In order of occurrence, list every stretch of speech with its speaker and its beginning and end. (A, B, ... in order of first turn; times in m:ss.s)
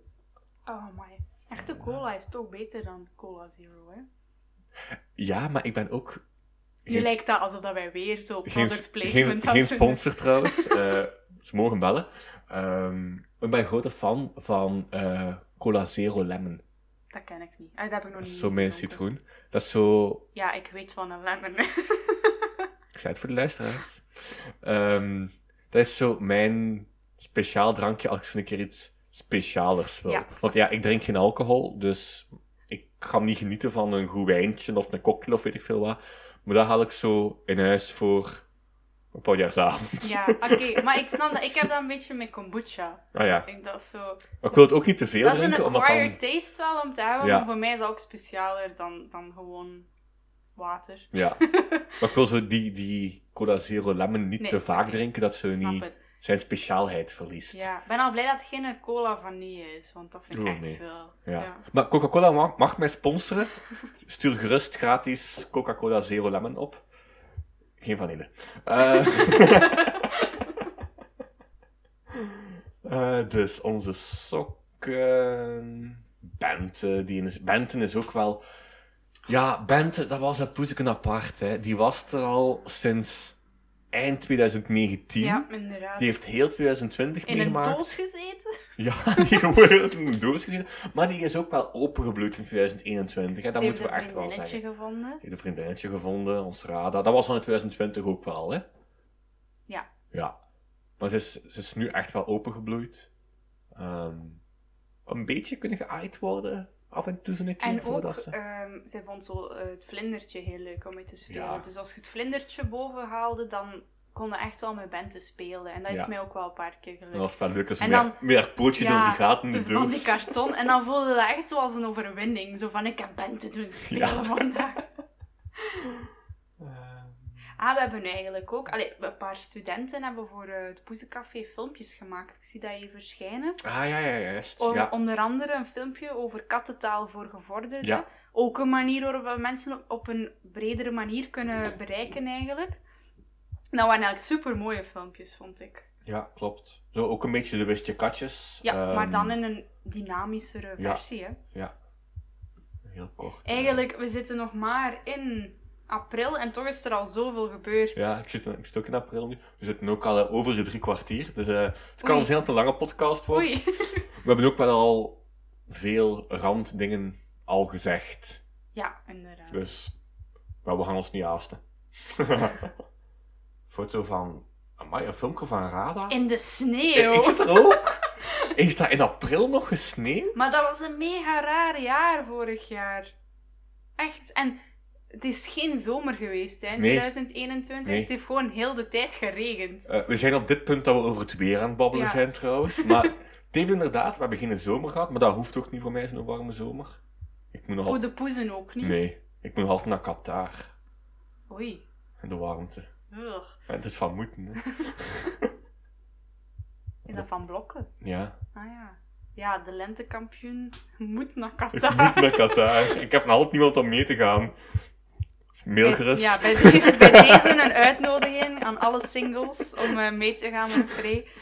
0:00.6-0:04.0 A
0:05.2-0:06.2 B
0:06.8-0:07.1 B
0:06.9-0:10.8 A
0:08.4-0:16.6 B
0:17.1-0:19.0 A
0:18.2-0:20.2 B
0:20.3-0:22.6 A
0:22.9-0:38.4 B
0:30.0-0:30.5 A
0:39.1-0:40.8 B
0:40.0-0:44.3 A
0:43.1-0:43.5 B
0:44.4-0:46.2 B
0:45.2-0:49.9 A
0:47.2-0:47.5 B
0:50.6-0:52.0 A
0:51.1-0:51.4 B
0:52.0-0:57.7 B
0:54.4-0:56.0 A
0:57.5-1:01.6 A
1:00.3-1:06.8 B
1:07.8-1:10.2 B
1:09.1-1:09.7 A
1:12.1-1:18.4 B
1:19.3-1:23.4 B
1:23.9-1:25.4 B
1:25.2-1:26.2 A
1:26.0-1:27.9 B
1:27.2-1:28.5 A
1:28.8-1:34.6 B
1:29.1-1:29.4 A
1:33.5-1:35.2 A
1:35.2-1:38.6 B
1:41.0-1:43.1 B
1:43.7-1:44.4 B
1:45.1-1:48.3 B
1:47.6-1:58.2 A
1:51.3-1:51.6 B
1:57.1-2:00.2 B
1:58.7-2:04.8 A
2:03.9-2:04.4 B
2:06.6-2:07.4 B
2:07.6-2:13.6 A
2:13.6-2:14.9 B
2:14.6-2:22.8 A
2:23.7-2:25.8 A
2:26.0-2:29.4 B
2:28.6-2:31.4 A
2:30.8-2:31.7 B
2:32.8-2:33.8 B
2:33.4-2:38.2 A
2:37.9-2:43.6 B
2:42.0-2:42.3 A
2:43.3-2:44.0 A
2:44.2-2:48.4 B
2:48.7-2:49.7 A
2:49.5-2:50.0 B
2:50.6-2:52.7 B
2:53.7-2:56.2 B
2:56.1-2:58.4 A
2:56.9-3:00.6 B
3:00.3-3:03.1 A
3:04.0-3:04.6 A
3:05.1-3:09.9 A
3:06.8-3:07.1 B
3:09.9-3:17.0 B
3:11.9-3:12.2 A
3:12.7-3:13.1 A
3:17.5-3:18.0 B
3:17.8-3:19.0 A
3:18.8-3:20.7 B
3:21.5-3:21.8 A
3:22.2-3:22.9 B
3:23.1-3:23.6 A
3:23.7-3:25.5 B
3:27.0-3:27.9 A
3:28.0-3:28.4 B
3:28.5-3:33.0 A
3:31.7-3:34.6 B
3:35.5-3:37.7 B
3:35.8-3:41.3 A